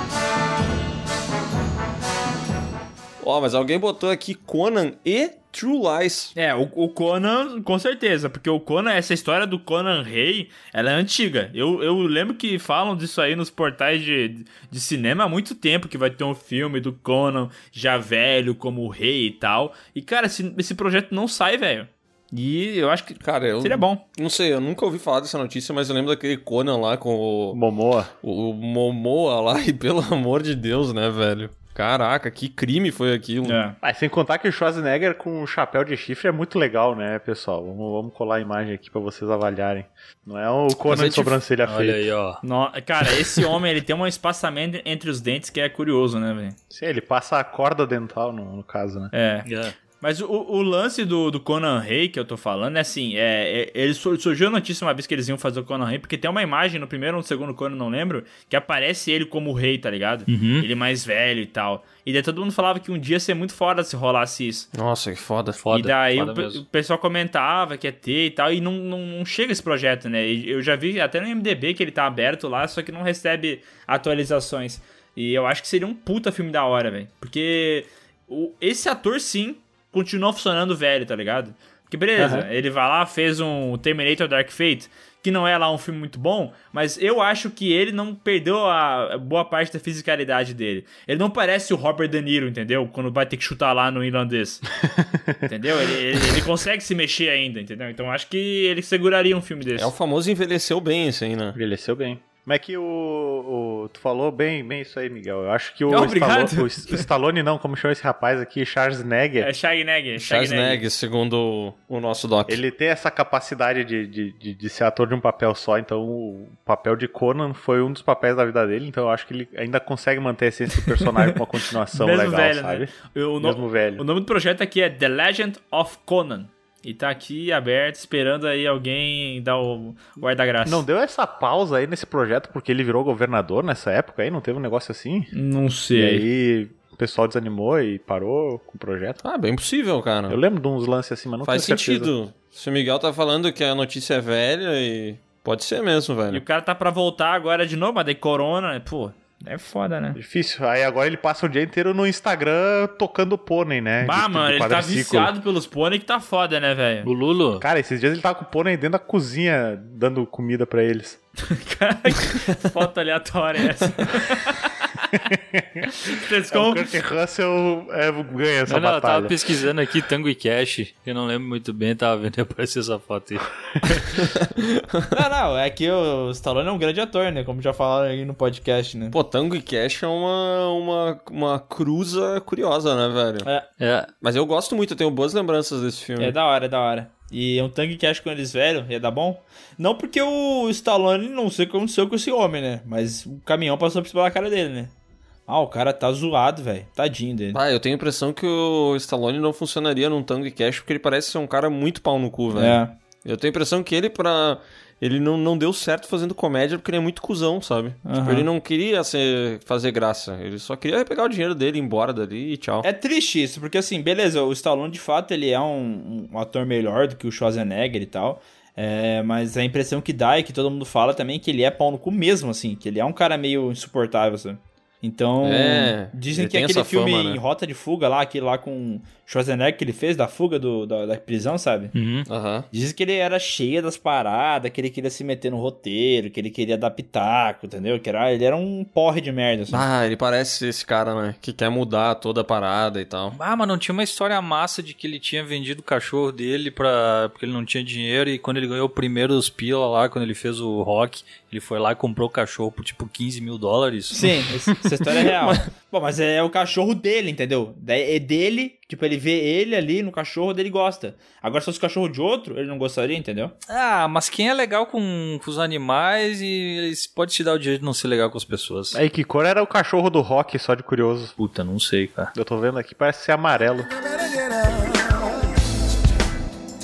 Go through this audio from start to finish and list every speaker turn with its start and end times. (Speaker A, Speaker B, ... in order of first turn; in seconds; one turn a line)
Speaker A: 3.2-6.3
Speaker B: 6.4-24.0
Speaker A: 23.2-27.6
Speaker C: 27.5-28.1
Speaker A: 28.2-33.6
Speaker B: 33.4-33.8
Speaker C: 33.8-42.1
Speaker A: 40.9-41.4
Speaker D: 41.7-42.4
Speaker B: 42.4-46.6
Speaker C: 46.7-49.1
Speaker B: 49.1-49.5
Speaker D: 49.5-49.8
Speaker B: 50.0-64.7
Speaker D: 60.3-60.7
Speaker A: 64.7-65.6
Speaker D: 65.6-66.6
Speaker B: 65.7-94.6
Speaker C: 82.2-82.5
Speaker C: 94.8-95.4
Speaker B: 95.5-99.9
Speaker A: 99.8-101.6
Speaker C: 101.5-109.5
Speaker B: 105.9-107.1
Speaker B: 109.4-110.8
Speaker A: 110.2-112.6
Speaker C: 112.5-124.0
Speaker B: 121.0-130.8
Speaker C: 130.7-135.3
Speaker B: 135.3-136.3
Speaker C: 135.9-139.2
Speaker A: 139.2-140.4
Speaker C: 140.3-142.1
Speaker A: 141.4-146.4
Speaker B: 146.3-150.2
Speaker C: 150.1-155.3
Speaker B: 154.0-157.1
Speaker D: 157.0-157.7
Speaker C: 157.6-161.2
Speaker B: 161.4-165.2
Speaker C: 165.2-165.9
Speaker B: 166.0-166.9
Speaker C: 166.5-169.4
Speaker D: 168.7-174.2
Speaker A: 174.4-175.1
Speaker B: 175.1-179.2
Speaker A: 179.1-183.5
Speaker D: 183.8-184.1
Speaker A: 184.2-186.3
Speaker B: 186.2-194.9
Speaker B: 195.5-197.6
Speaker A: 197.5-212.9
Speaker B: 202.5-202.9
Speaker B: 208.1-208.5
Speaker B: 212.8-231.9
Speaker A: 225.4-227.4
Speaker D: 231.9-232.3
Speaker A: 232.3-232.7
Speaker B: 232.7-239.8
Speaker A: 239.7-243.4
Speaker D: 243.3-254.3
Speaker B: 254.1-263.6
Speaker D: 263.7-269.0
Speaker C: 268.9-271.4
Speaker D: 271.4-272.3
Speaker C: 272.3-273.9